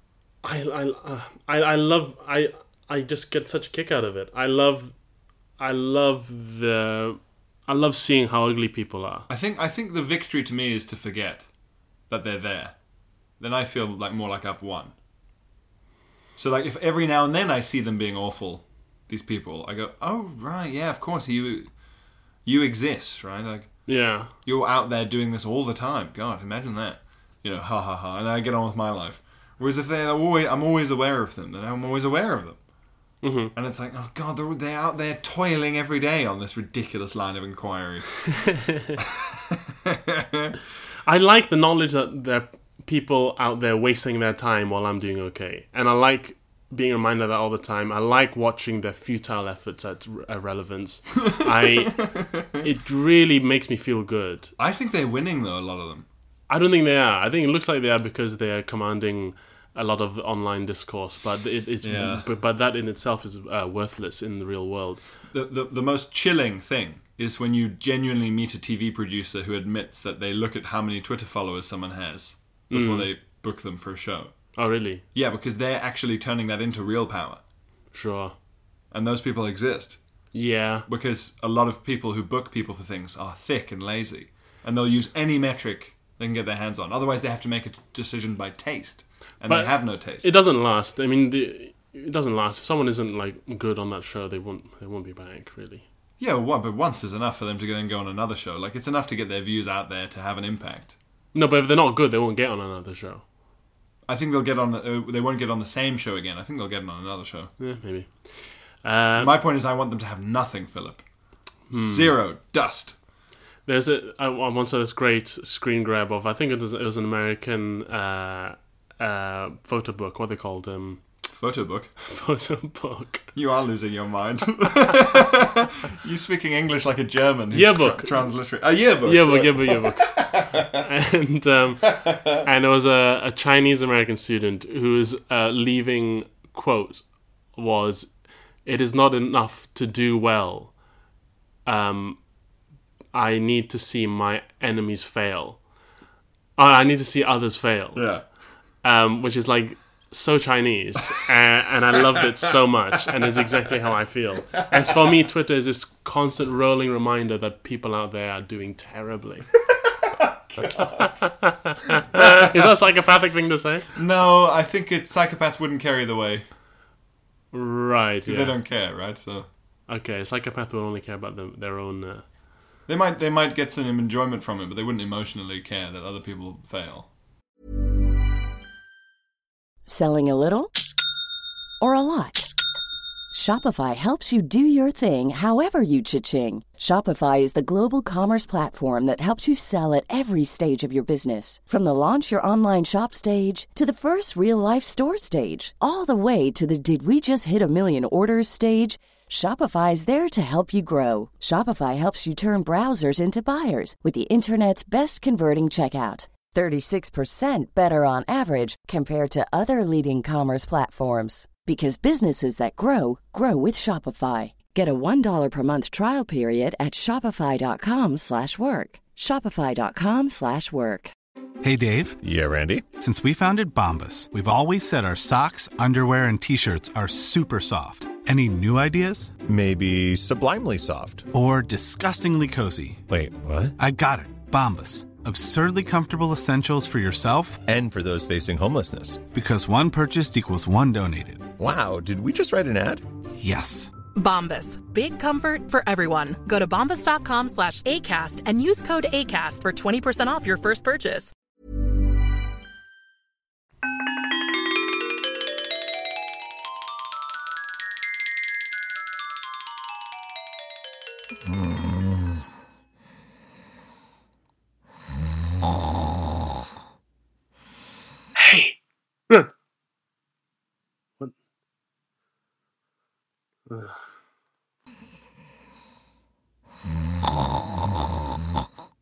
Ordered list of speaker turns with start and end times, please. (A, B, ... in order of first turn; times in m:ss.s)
0:00.4-0:04.9 A
0:05.6-0:09.3 A
0:09.3-0:11.4 B
0:12.1-0:12.8 B
0:13.4-0:14.9 B
0:16.4-0:21.7 B
0:22.4-0:32.6 B
0:23.9-0:24.3 A
0:33.2-0:33.5 A
0:33.5-0:38.2 B
0:38.7-0:39.0 A
0:39.0-0:40.6 B
0:41.0-0:54.5 A
0:51.3-0:52.7 B
0:54.6-0:56.1 B
0:56.5-1:05.0 A
1:01.8-1:02.2 B
1:05.3-1:14.3 B
1:12.7-1:13.1 A
1:14.6-1:15.0 A
1:15.1-1:17.4 B
1:17.9-1:18.3 A
1:18.9-1:20.0 B
1:20.3-1:20.8 A
1:20.9-1:30.3 B
1:29.4-1:35.8 A
1:36.2-1:40.9 B
1:41.3-1:43.2 A
1:44.1-1:47.5 B
1:47.6-1:49.4 A
1:49.2-1:51.0 B
1:51.7-1:52.2 A
1:51.7-1:53.0 B
1:53.6-2:01.0 A
2:01.3-2:01.9 B
2:02.0-2:03.3 A
2:03.3-2:10.8 B
2:07.5-2:08.3 A
2:09.0-2:18.1 A
2:11.8-2:12.4 B
2:18.6-2:20.7 A
2:21.6-2:22.2 A
2:23.1-2:25.6 A
2:26.6-2:28.1 A
2:27.9-2:28.2 B
2:28.8-2:39.5 A
2:33.1-2:33.4 B
2:34.6-2:35.1 B
2:39.7-2:41.3 B
2:41.0-2:43.9 A
2:41.9-2:42.6 B
2:43.9-2:46.4 B
2:47.5-2:48.6 A
2:48.2-2:49.5 B
2:49.9-2:52.2 A
2:52.9-2:57.1 B
2:59.9-3:00.7 C
3:01.8-3:02.5 C
3:03.3-3:41.1 C
3:41.6-3:42.2 D
3:42.2-3:42.8 E
3:43.0-3:49.3 D
3:49.4-3:51.3 E
3:51.3-3:53.0 D
3:53.1-3:53.7 E
3:53.8-3:57.6 D
3:57.6-3:59.2 E
3:59.3-4:01.5 D
4:01.6-4:03.0 E
4:03.4-4:03.9 D
4:04.1-4:11.3 F
4:28.4-4:28.7 A